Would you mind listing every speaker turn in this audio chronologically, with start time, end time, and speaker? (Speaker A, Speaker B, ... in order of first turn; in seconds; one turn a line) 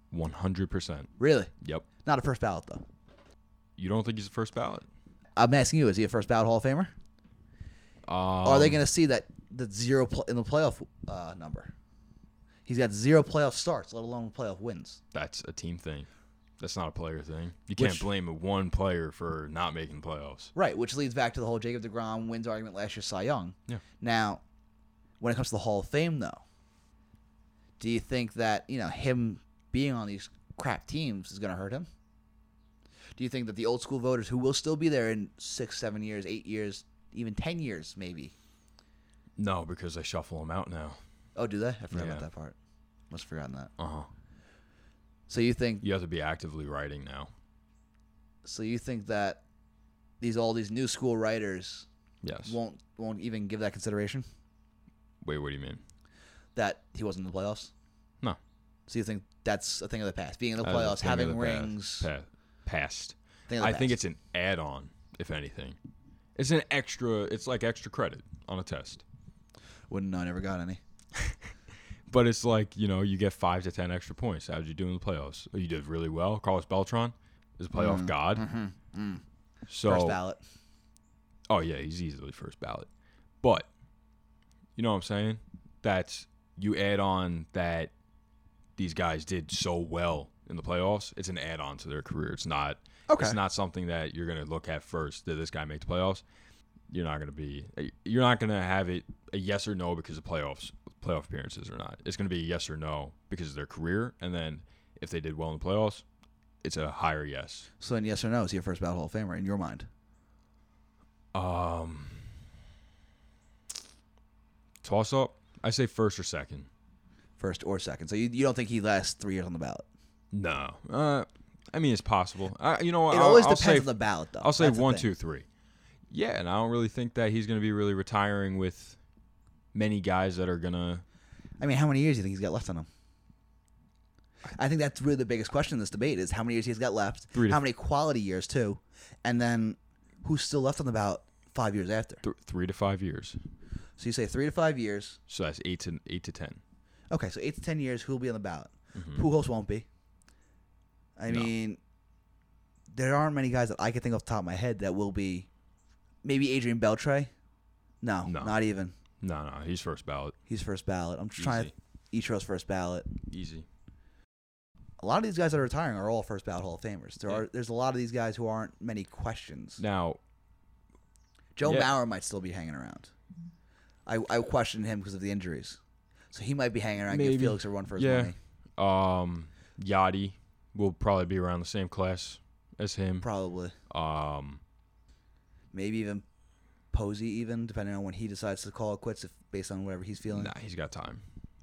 Speaker A: 0.1-1.1
Speaker B: 1.2-1.5
Speaker B: 2.0-2.8
Speaker A: 3.8-4.9
Speaker B: 5.3-6.9
Speaker A: 8.1-8.8
Speaker B: 8.4-11.7
Speaker B: 12.7-15.0
Speaker A: 15.1-20.5
Speaker B: 17.8-18.1
Speaker B: 20.5-24.4
Speaker B: 25.2-26.4
Speaker B: 27.8-31.9
Speaker B: 33.1-38.3
Speaker A: 39.4-41.0
Speaker B: 41.4-42.5
Speaker A: 41.9-42.2
Speaker B: 43.1-43.7
Speaker A: 43.8-44.1
Speaker B: 45.3-45.8
Speaker A: 45.8-47.3
Speaker B: 48.4-49.4
Speaker B: 50.2-51.9
Speaker A: 52.2-52.6
Speaker B: 52.4-54.2
Speaker A: 55.2-55.8
Speaker B: 56.5-57.7
Speaker B: 58.9-62.1
Speaker A: 60.6-65.8
Speaker B: 63.5-64.0
Speaker A: 66.3-69.0
Speaker B: 69.9-70.8
Speaker A: 72.1-78.4
Speaker B: 77.7-79.2
Speaker A: 79.7-80.2
Speaker B: 79.8-80.4
Speaker A: 81.5-82.9
Speaker A: 83.4-83.7
Speaker A: 84.8-87.9
Speaker A: 88.8-96.2
Speaker B: 93.1-93.4
Speaker A: 96.9-106.0
Speaker A: 106.6-107.7
Speaker B: 107.8-109.9
Speaker A: 111.3-112.3
Speaker A: 114.8-116.7
Speaker B: 117.4-119.8
Speaker A: 120.3-125.5
Speaker B: 123.1-125.1
Speaker A: 126.1-129.0
Speaker A: 129.7-131.0
Speaker B: 131.6-132.9
Speaker B: 134.5-142.2
Speaker A: 137.3-137.6
Speaker A: 142.2-143.4
Speaker B: 144.0-145.2
Speaker A: 145.3-146.6
Speaker B: 147.1-149.8
Speaker A: 148.9-149.2
Speaker B: 151.2-151.8
Speaker B: 152.9-155.5
Speaker B: 156.2-157.3
Speaker B: 158.0-158.9
Speaker A: 158.2-158.6
Speaker A: 159.2-160.3
Speaker B: 160.5-163.1
Speaker A: 161.4-161.7
Speaker A: 163.3-163.7
Speaker B: 165.0-169.8
Speaker A: 169.8-170.2
Speaker B: 171.6-173.1
Speaker A: 171.6-171.9
Speaker B: 174.1-175.8
Speaker B: 176.3-178.3
Speaker A: 177.1-183.3
Speaker B: 183.2-183.7
Speaker A: 183.9-184.6
Speaker B: 185.7-186.2
Speaker B: 186.9-190.5
Speaker A: 190.3-191.2